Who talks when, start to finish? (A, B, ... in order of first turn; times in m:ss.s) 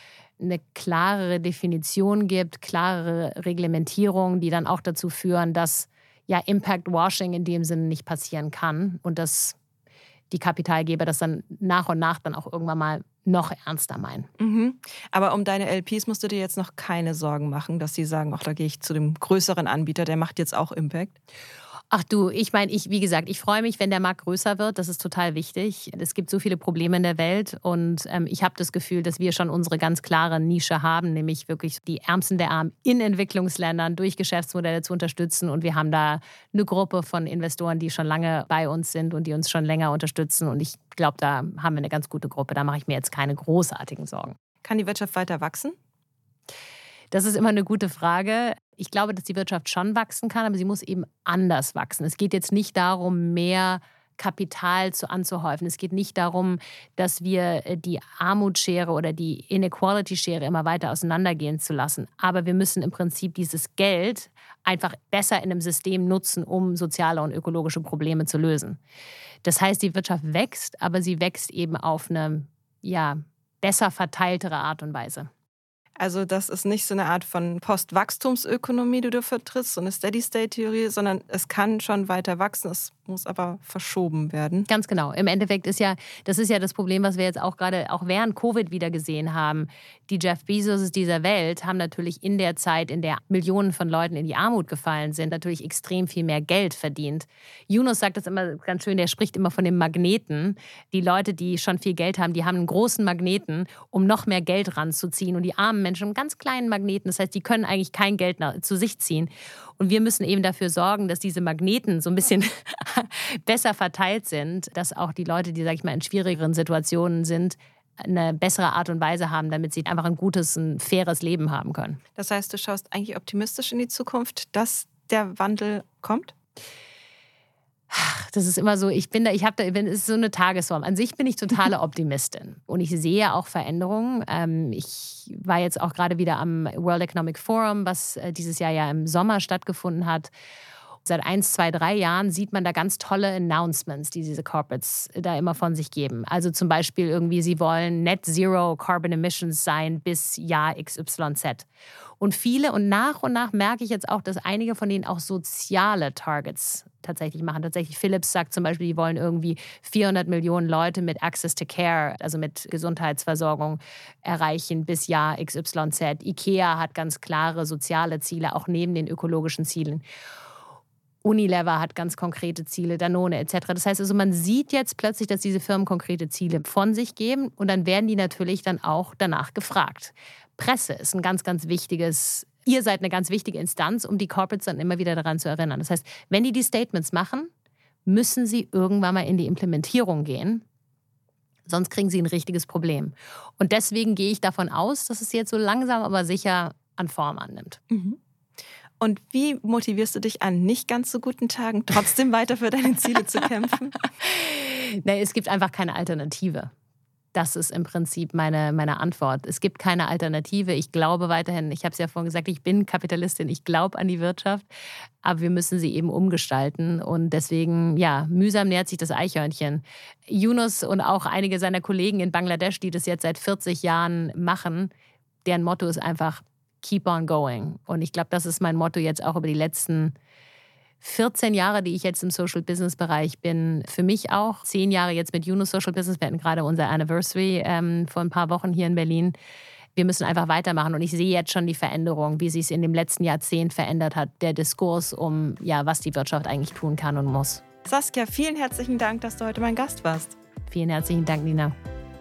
0:00.4-0:09.6 A
0:10.3-0:14.3 A
0:14.4-0:21.2 B
0:21.9-0:44.4 A
0:44.6-0:45.8 B
0:47.1-1:08.8 A
1:09.4-1:15.3 A
1:16.0-1:24.7 B
1:24.7-2:02.0 A
2:02.2-2:06.3 B
2:07.9-2:20.3 A
2:21.0-2:31.6 A
2:32.2-2:50.0 A
2:51.2-3:07.5 A
3:08.1-3:10.6 A
3:11.7-3:17.8 A
3:17.9-3:18.2 B
3:19.0-3:24.0 B
3:24.2-3:26.7 A
3:27.3-3:34.6 A
3:35.2-3:44.9 A
3:45.4-3:50.1 A
3:51.0-3:59.3 A
4:00.0-4:07.6 A
4:07.8-4:10.4 B
4:10.7-4:11.7 A